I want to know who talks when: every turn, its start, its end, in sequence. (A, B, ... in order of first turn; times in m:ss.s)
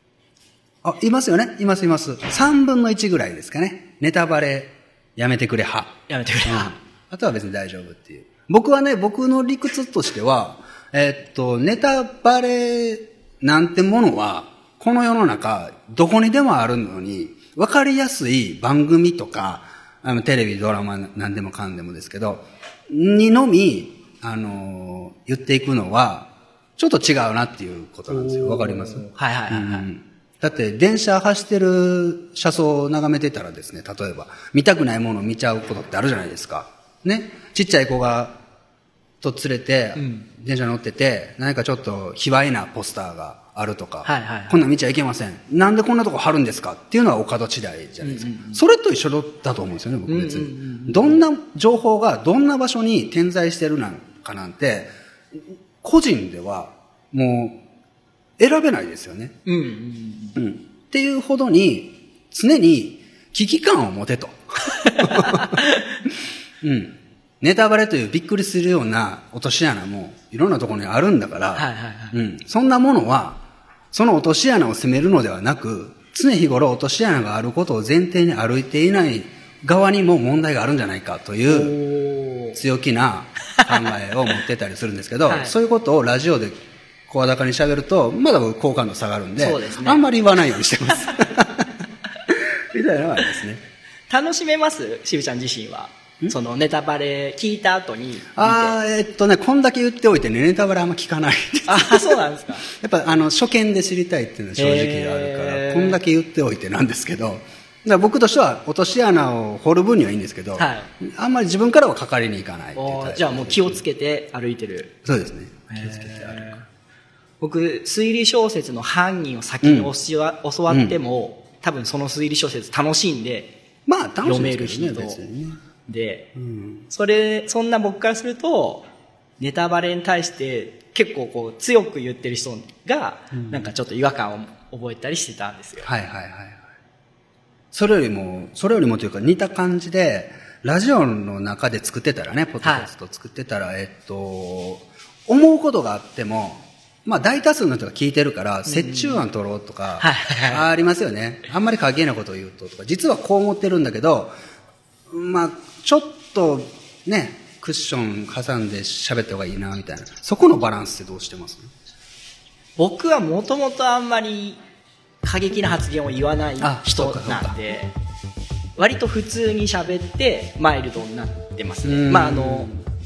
0:00.8-0:38.4 A
0:06.1-0:06.7 B
0:28.1-0:29.8 B
0:39.2-0:54.9 A
0:40.0-0:40.3 B
0:44.0-0:44.6 B
0:48.0-0:48.6 B
0:50.1-0:51.2 B
0:55.8-0:57.6 A
0:58.4-0:59.4 A
0:59.4-1:00.4 B
1:00.4-1:05.6 A
1:05.0-1:05.8 B
1:06.6-1:21.8 A
1:11.6-1:12.2 B
1:21.5-1:22.6 B
1:22.5-1:26.6 A
1:25.2-1:25.5 B
1:27.1-1:31.7 A
1:29.4-1:30.0 B
1:32.3-1:33.6 A
1:34.1-1:38.8 B
1:38.3-1:53.8 A
1:41.7-1:42.6 B
1:44.6-1:46.0 B
1:50.6-1:50.9 B
1:52.8-1:54.9 B
1:55.0-1:56.5 A
1:55.7-1:56.6 B
1:57.4-2:03.5 B
1:59.6-1:59.9 A
2:00.7-2:01.0 A
2:03.8-2:05.6 A
2:04.2-2:05.2 B
2:05.8-2:06.3 B
2:06.3-2:06.9 A
2:06.9-2:08.8 B
2:09.4-2:15.9 B
2:13.3-2:13.7 A
2:15.8-2:16.7 A
2:17.7-2:34.3 A
2:22.6-2:22.9 B
2:28.6-2:29.2 B
2:30.0-2:30.6 B
2:35.1-2:41.7 A
2:42.8-2:44.6 B
2:45.2-2:47.9 B
2:46.6-2:47.6 A
2:48.8-2:52.7 B
2:51.8-2:52.8 A